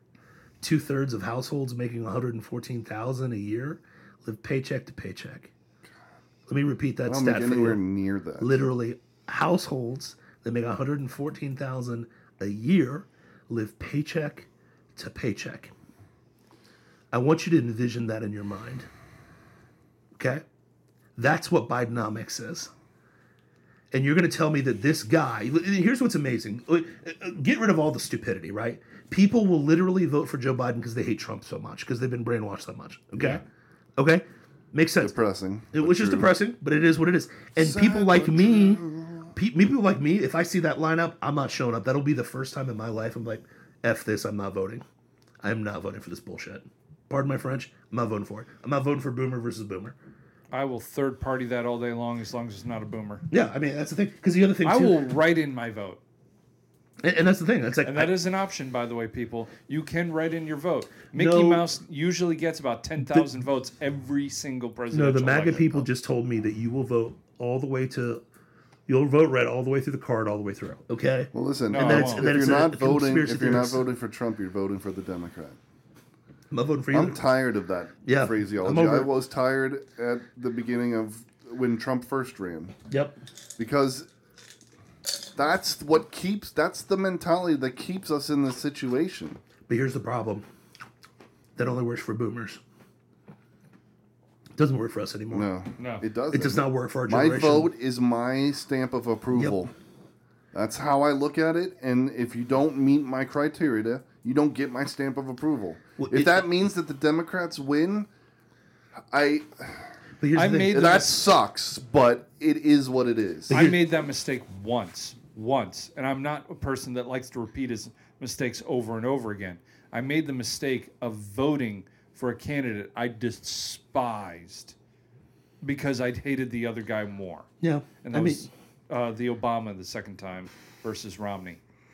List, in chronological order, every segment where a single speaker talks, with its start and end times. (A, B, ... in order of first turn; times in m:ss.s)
0:00.6-0:05.5 A
0:06.5-0:07.8 A
0:07.0-0:08.6 B
0:08.4-0:15.7 A
0:17.1-0:18.9 A
0:20.2-0:20.4 A
0:21.2-0:22.7 A
0:23.9-0:33.4 A
0:33.2-0:33.4 B
0:34.0-0:35.2 A
0:35.0-0:36.3 B
0:35.7-0:38.8 A
0:37.6-0:39.3 B
0:39.3-0:44.8 A
0:45.4-0:50.0 A
0:50.5-0:53.2 C
0:53.3-0:55.0 A
0:54.6-0:56.0 C
0:57.0-0:58.1 A
0:57.8-1:05.8 C
1:01.1-1:01.6 A
1:03.0-1:03.3 A
1:04.9-1:08.2 A
1:08.9-1:13.8 A
1:11.3-1:15.6 B
1:11.7-1:12.3 C
1:16.5-1:17.3 A
1:16.9-1:22.8 B
1:18.0-1:19.1 A
1:22.9-1:23.1 A
1:23.6-1:24.1 B
1:25.4-1:29.4 B
1:29.7-1:30.4 A
1:31.6-1:32.6 A
1:34.6-1:35.5 A
1:35.3-1:39.7 B
1:35.8-1:36.0 C
1:36.3-1:37.7 A
1:39.3-1:39.6 A
1:40.5-1:48.1 B
1:46.0-1:46.5 A
1:49.1-1:49.9 B
1:50.2-1:50.9 A
1:50.3-1:51.2 C
1:50.7-1:53.6 B
1:53.5-1:53.8 A
1:53.5-2:04.7 C
2:05.6-2:07.5 C
2:07.6-2:08.5 A
2:08.0-2:11.6 C